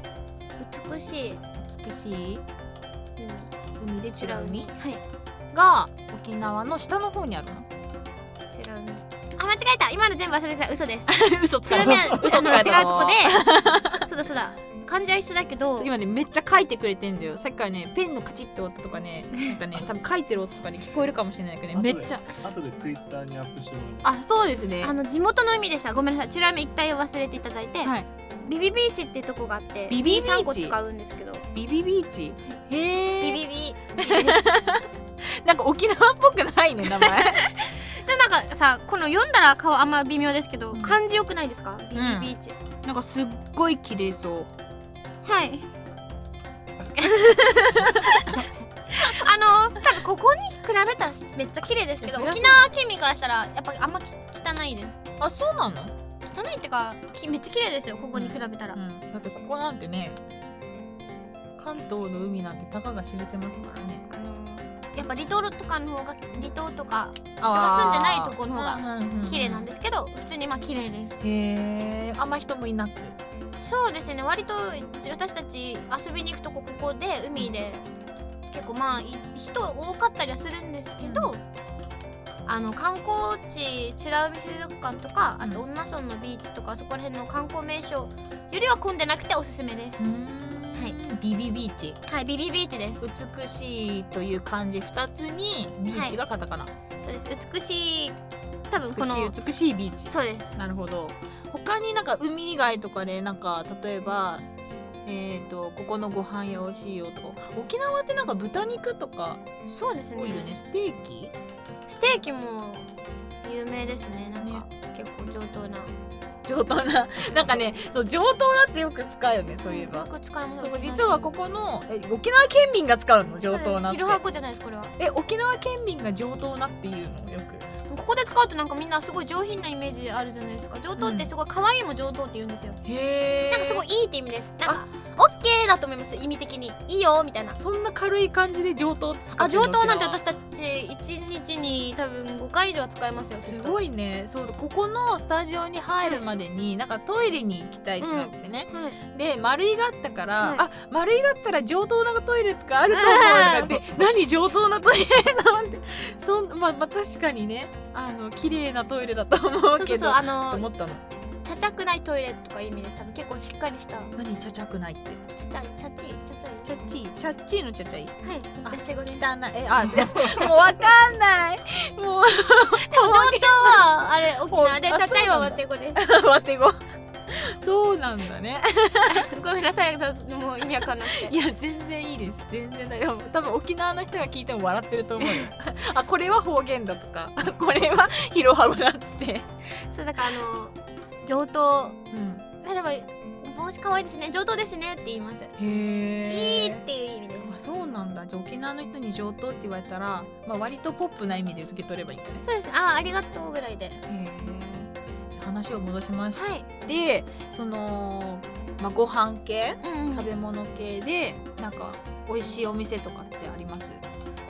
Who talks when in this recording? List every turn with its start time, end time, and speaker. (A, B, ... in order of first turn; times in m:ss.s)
0:00.6-0:01.4 A
0:01.6-0:02.4 B
0:03.2-0:03.5 A
0:03.8-0:04.7 B
0:04.2-0:05.0 A
0:05.5-0:07.7 B
0:08.5-0:15.9 A
0:11.1-0:14.0 B
0:15.8-0:22.3 B
0:21.7-0:24.2 C
0:24.0-0:24.9 B
0:24.8-0:31.4 A
0:29.9-0:30.8 B
0:31.5-0:33.4 B
0:33.2-0:34.4 A
0:34.0-0:37.4 B
0:37.0-0:42.6 A
0:40.7-0:41.0 B
0:41.9-0:42.3 B
0:42.8-0:44.5 B
0:45.2-0:45.7 A
0:46.9-0:55.0 A
0:47.1-0:48.3 B
0:52.0-0:52.7 B
0:55.2-0:55.9 B
0:56.2-0:58.8 A
0:58.1-1:00.2 B
1:01.6-1:04.0 B
1:04.1-1:11.2 A
1:07.4-1:09.7 B
1:11.2-1:13.2 B
1:13.6-1:17.9 A
1:18.5-1:21.4 A
1:21.0-1:21.3 B
1:22.4-1:30.0 A
1:30.0-1:32.0 B
1:32.0-1:33.0 A
1:33.0-1:36.7 B
1:35.9-1:36.2 A
1:37.0-1:38.2 A
1:38.7-1:39.4 A
1:38.8-1:44.4 B
1:40.1-1:40.6 A
1:45.0-1:49.4 B
1:49.7-1:50.6 A
1:50.2-1:51.3 B
1:51.9-1:55.9 A
1:54.4-1:54.6 B
1:56.4-2:04.2 B
1:59.6-2:01.3 A
2:03.4-2:04.9 A
2:05.0-2:07.7 B
2:07.9-2:12.8 A
2:11.0-2:11.3 B
2:12.8-2:13.8 B
2:13.5-2:17.6 A
2:17.6-2:20.2 B
2:19.4-2:23.8 A
2:23.4-2:41.0 B
2:28.0-2:29.0 A
2:32.9-2:33.8 A
2:39.7-2:40.7 A
2:41.4-2:44.1 A
2:44.2-2:45.2 B
2:45.4-2:46.7 A
2:46.6-2:59.3 B
2:48.2-2:49.2 A
2:52.8-2:56.0 A
2:59.1-3:01.4 A
3:01.0-3:09.4 B
3:05.2-3:05.5 A
3:09.7-3:12.0 A
3:12.1-3:12.4 B
3:12.6-3:15.5 A
3:15.6-3:16.8 B
3:16.3-3:17.5 A
3:17.5-3:22.4 B
3:22.4-3:24.0 A
3:24.1-3:34.0 B
3:26.3-3:26.7 A
3:29.8-3:30.3 A